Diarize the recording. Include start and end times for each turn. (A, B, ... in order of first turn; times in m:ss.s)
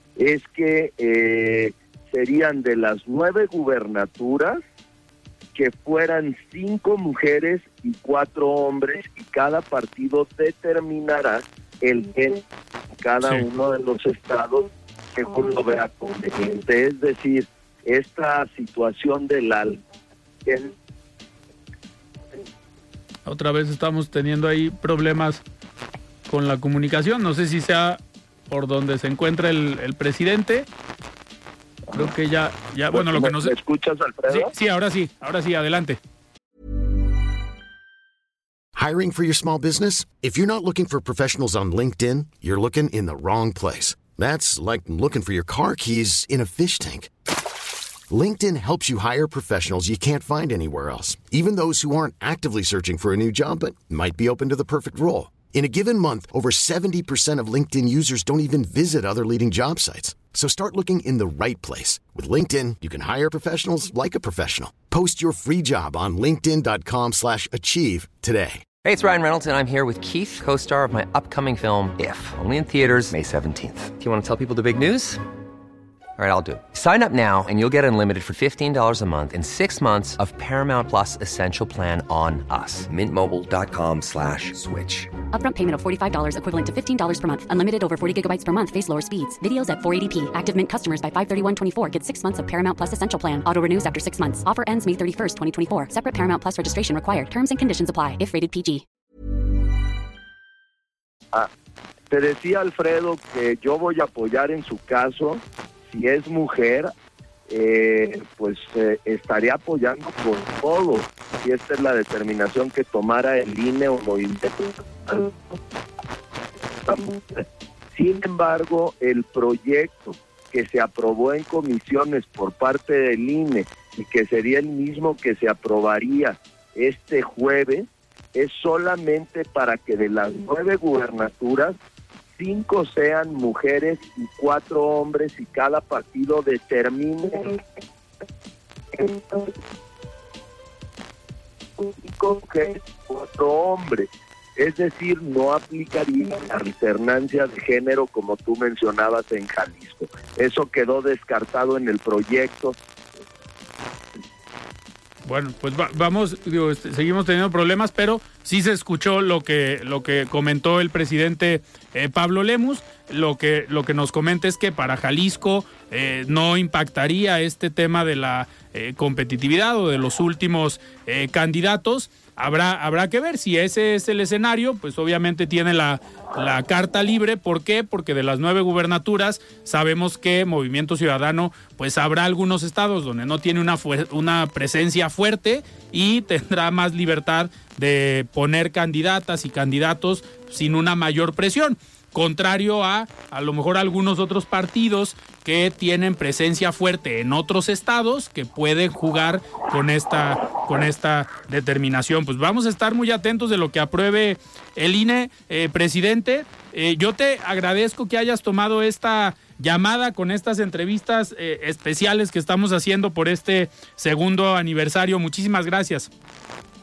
0:00.2-0:04.6 A
0:05.6-0:12.4 A
0:13.0-0:19.8 A
0:20.5-0:20.8 A
0:23.3-0:25.4 B
0:26.3-0:30.7 B
0:31.9-0:33.5 B
0:32.9-0:34.5 A
0:34.3-0:36.0 B
0:38.7-0:47.1 C
0:48.1-1:08.7 C
1:08.8-1:15.2 D
1:16.2-1:25.2 D
1:25.3-1:38.8 E
1:42.1-1:46.9 A
1:47.5-1:55.4 A
1:56.9-2:11.8 A
2:12.4-2:17.6 A
2:19.0-2:19.5 A
2:21.9-2:32.8 A
2:35.3-3:36.1 B